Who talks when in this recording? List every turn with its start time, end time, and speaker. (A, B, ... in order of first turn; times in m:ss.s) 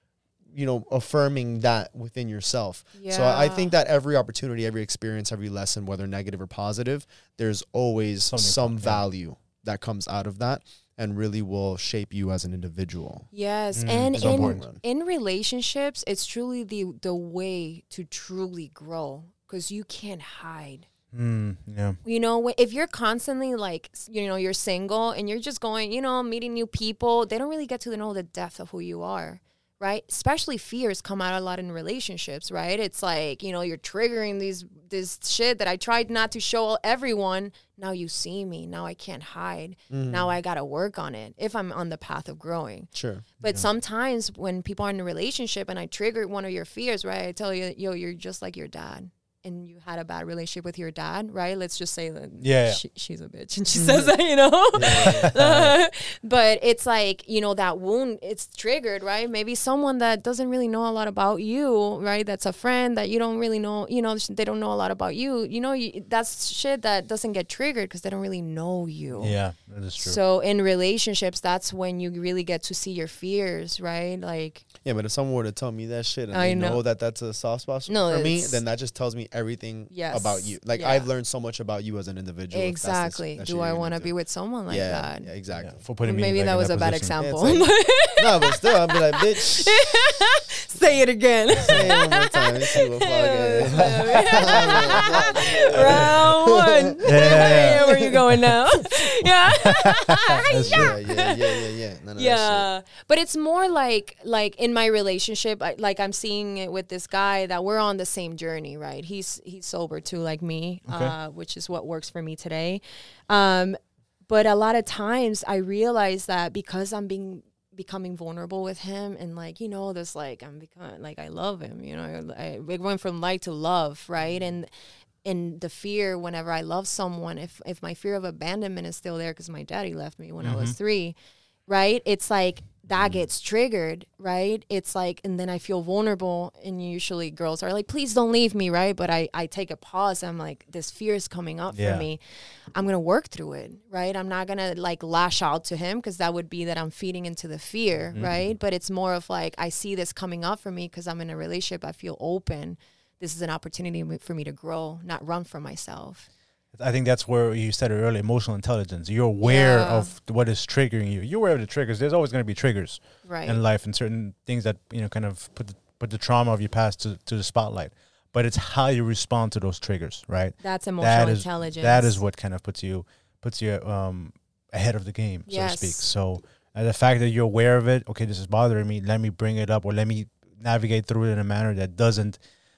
0:00.5-0:13.3 A
0:03.0-0:03.7 B
0:08.3-0:09.0 C
0:13.3-0:20.9 B
0:13.7-0:14.6 C
0:14.1-0:14.8 A
0:21.1-0:22.0 C
0:22.0-1:09.4 B
0:39.9-0:40.3 A
0:42.9-0:43.2 A
0:52.4-0:52.8 C
0:53.8-0:54.1 A
0:54.7-0:55.4 A
0:54.8-0:55.8 C
1:09.2-1:10.2 C
1:10.0-1:14.7 B
1:14.8-1:24.1 A
1:16.3-1:16.8 B
1:17.9-1:18.6 B
1:19.9-1:21.1 B
1:22.5-1:25.3 B
1:24.7-1:25.8 A
1:25.6-1:27.2 C
1:26.0-1:41.6 B
1:27.2-1:30.0 A
1:31.6-1:38.1 A
1:33.7-1:34.4 C
1:37.1-1:38.4 C
1:39.6-1:41.0 C
1:40.6-1:42.7 A
1:42.2-2:04.7 B
1:50.9-1:51.2 C
2:05.2-2:11.2 B
2:10.4-2:10.8 C
2:11.7-2:22.2 B
2:21.7-2:22.1 C
2:22.7-2:36.3 B
2:28.1-2:28.5 C
2:36.7-3:02.4 C
2:39.4-2:40.1 B
2:43.2-2:43.6 B
2:50.6-2:52.2 B
2:55.5-2:56.0 B